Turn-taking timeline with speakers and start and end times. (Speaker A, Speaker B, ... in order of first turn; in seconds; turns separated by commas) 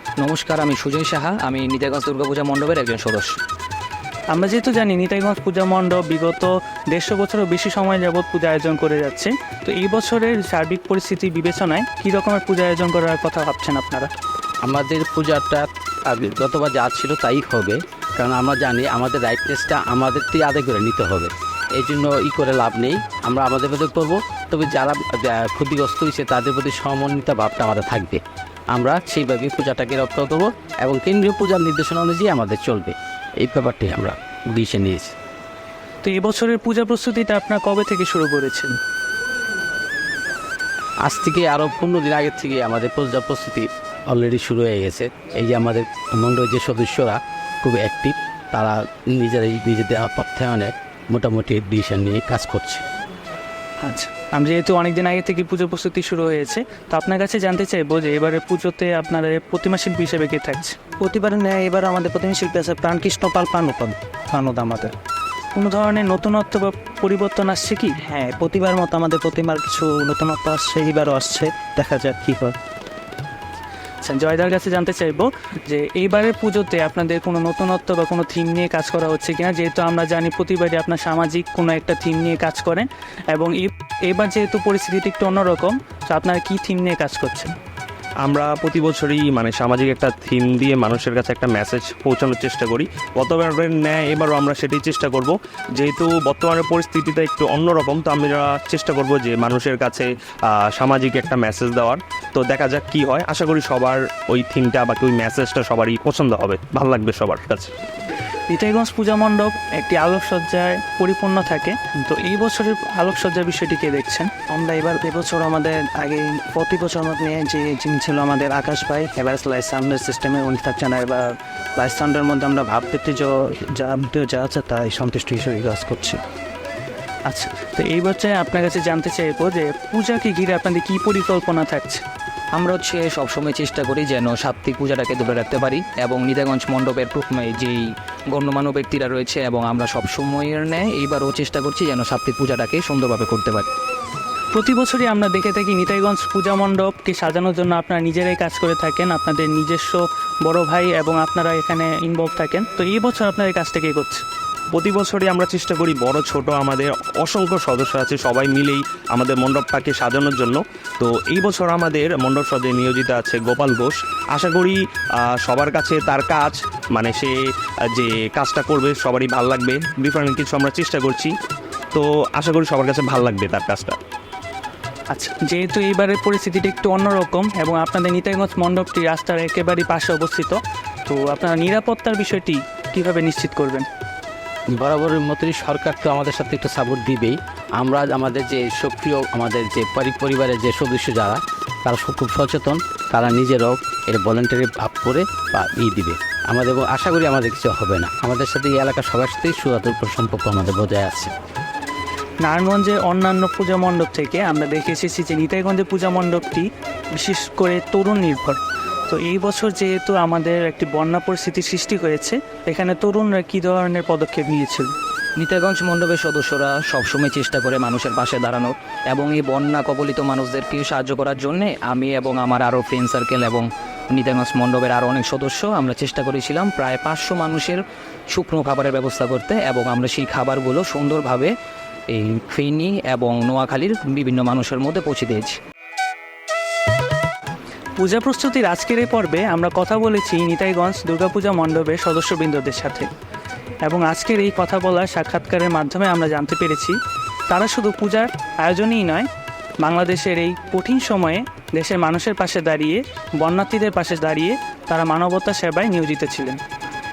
Speaker A: 0.2-3.4, Speaker B: 4.3-14.1, Speaker C: 14.6-28.2, Speaker C: 28.7-35.1, Speaker B: 36.0-38.8, Speaker C: 41.0-52.8, Speaker B: 53.8-60.8, Speaker D: 61.0-64.9, Speaker B: 65.5-67.9, Speaker D: 68.0-72.5, Speaker B: 74.0-87.5, Speaker E: 88.2-107.7, Speaker B: 108.5-114.3, Speaker D: 114.5-126.2, Speaker B: 127.2-132.0, Speaker A: 132.5-143.7, Speaker B: 144.5-154.2, Speaker E: 154.7-164.8, Speaker E: 165.4-167.3, Speaker E: 167.9-171.3, Speaker E: 171.9-174.0, Speaker B: 175.1-183.8, Speaker C: 184.7-201.3, Speaker B: 202.4-214.9, Speaker A: 215.4-231.5, Speaker A: 232.1-235.6, Speaker B: 238.0-243.1, Speaker B: 243.8-247.0, Speaker B: 247.5-249.3, Speaker B: 249.8-256.6